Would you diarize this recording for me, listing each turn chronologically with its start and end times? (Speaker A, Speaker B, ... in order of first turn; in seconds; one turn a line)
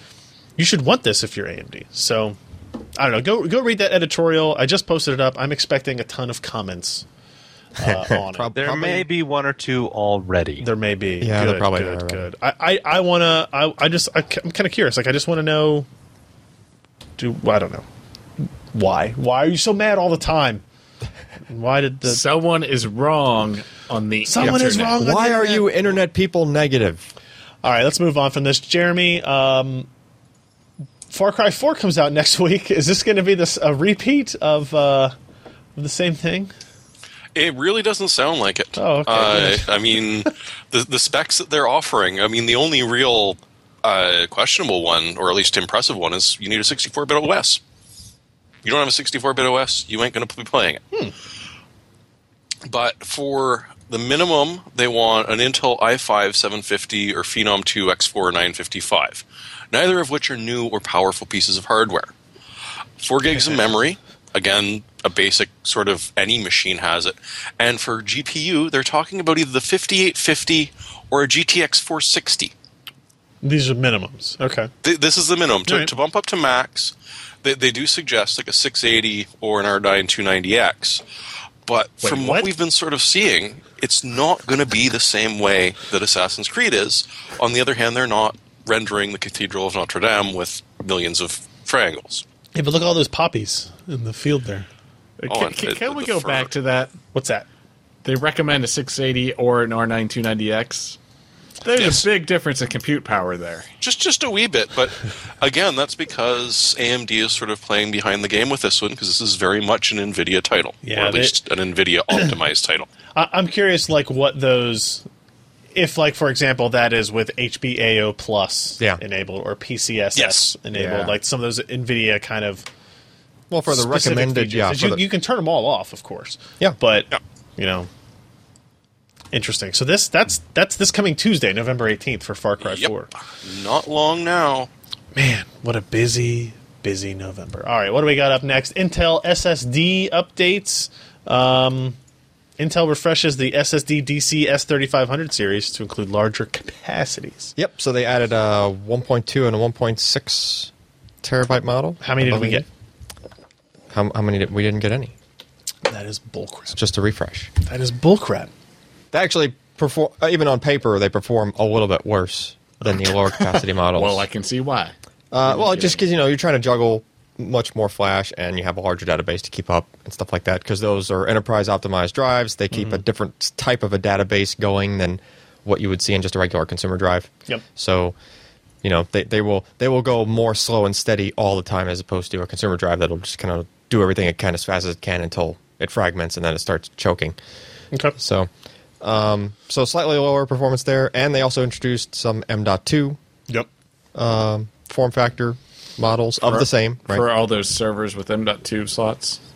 Speaker A: 0.6-2.4
Speaker A: 3.0-7.0
Speaker A: 7.8-8.5
Speaker B: 7.8-9.1
Speaker C: 8.6-10.7
Speaker A: 10.6-15.9
Speaker B: 11.2-12.2
Speaker A: 17.2-17.8
Speaker A: 18.7-20.6
Speaker A: 21.5-22.2
Speaker D: 22.0-25.0
Speaker A: 24.2-25.7
Speaker B: 24.4-27.1
Speaker A: 27.6-29.9
Speaker A: 31.1-35.1
Speaker A: 35.8-36.5
Speaker E: 37.3-47.6
Speaker A: 38.8-39.7
Speaker E: 48.6-50.9
Speaker E: 52.6-62.1
Speaker E: 63.0-72.5
Speaker A: 73.4-74.7
Speaker E: 74.8-81.0
Speaker A: 75.7-75.9
Speaker E: 81.7-92.2
Speaker A: 82.0-82.5
Speaker A: 92.5-94.7
Speaker D: 95.2-97.0
Speaker E: 95.3-96.5
Speaker A: 97.1-97.5
Speaker D: 98.0-101.0
Speaker D: 101.6-103.7
Speaker E: 101.8-102.0
Speaker E: 103.8-112.9
Speaker A: 110.8-111.4
Speaker A: 113.1-115.0
Speaker A: 115.7-122.7
Speaker E: 120.1-120.5
Speaker D: 120.8-121.1
Speaker B: 123.5-125.0
Speaker A: 123.7-127.9
Speaker A: 129.3-133.1
Speaker E: 132.6-132.9
Speaker E: 133.4-134.7
Speaker A: 135.1-142.0
Speaker A: 142.6-147.5
Speaker B: 147.6-150.7
Speaker B: 151.2-152.6
Speaker A: 152.0-152.7
Speaker B: 153.9-155.1
Speaker A: 155.8-156.8
Speaker B: 156.7-157.5
Speaker A: 157.6-158.5
Speaker B: 159.1-164.2
Speaker D: 163.9-164.9
Speaker B: 165.3-178.1
Speaker D: 165.4-166.0
Speaker A: 172.7-173.0
Speaker B: 178.8-187.3
Speaker B: 188.2-188.5
Speaker B: 189.0-193.2
Speaker B: 194.1-197.2
Speaker D: 196.5-199.4